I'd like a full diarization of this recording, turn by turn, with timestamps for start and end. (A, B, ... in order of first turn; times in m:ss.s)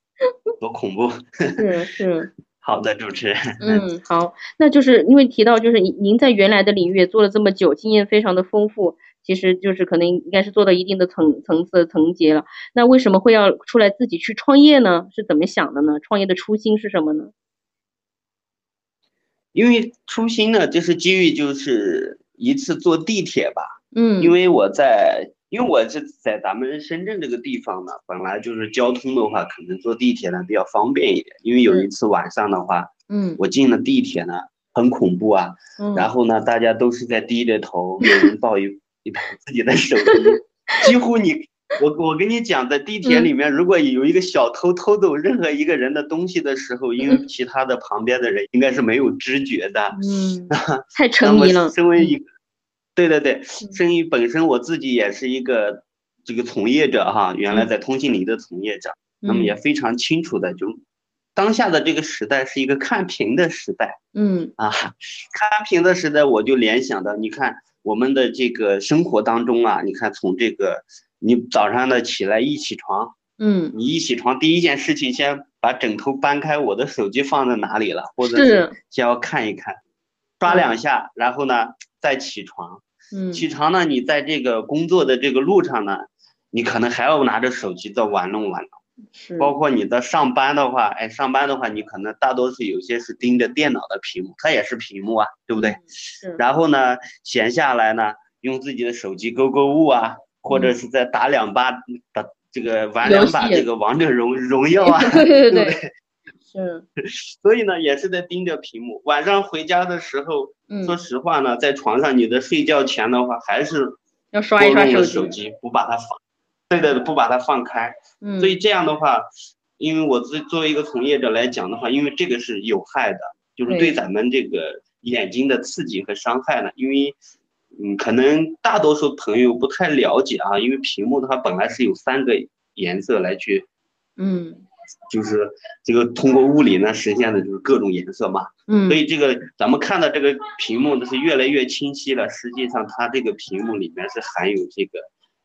0:00.7-0:02.0 A
0:01.6-0:02.9 B
0:02.7-0:03.9 A
0:03.6-0:17.3 B
0:19.6-0:50.0 A
0:23.9-0:24.4 B
0:31.2-0:32.5 B
0:33.1-0:34.0 B
0:35.8-0:38.5 B
0:40.0-0:41.1 B
0:42.8-0:43.4 B
0:46.4-0:47.7 B
0:49.9-0:52.2 B
0:50.5-0:52.2 A
0:53.0-0:55.8 A
0:53.6-0:54.5 B
0:55.0-0:55.3 B
0:56.4-1:00.6 A
0:56.6-1:00.1 B
1:01.5-1:04.0 A
1:02.6-1:04.7 B
1:04.7-1:13.2 A
1:05.8-1:06.4 B
1:09.2-1:09.7 B
1:13.4-1:14.8 B
1:13.7-1:19.7 A
1:18.2-1:18.9 B
1:20.4-1:22.8 A
1:20.4-1:20.9 B
1:23.1-1:24.5 B
1:23.3-1:28.6 A
1:29.1-1:30.0 B
1:29.4-1:35.8 A
1:35.5-1:36.4 B
1:36.4-1:45.8 A
1:40.4-1:40.9 B
1:43.0-1:44.0 B
1:44.8-1:45.8 B
1:46.4-1:46.9 B
1:47.0-1:54.0 A
1:50.0-1:51.3 B
1:54.3-1:55.5 B
1:54.6-1:56.2 A
1:56.7-1:59.3 A
1:57.0-1:58.8 B
1:59.8-2:07.1 A
2:03.7-2:04.0 B
2:07.9-2:13.6 A
2:14.2-2:15.2 B
2:15.2-2:24.9 A
2:15.9-2:18.0 B
2:18.7-2:19.0 B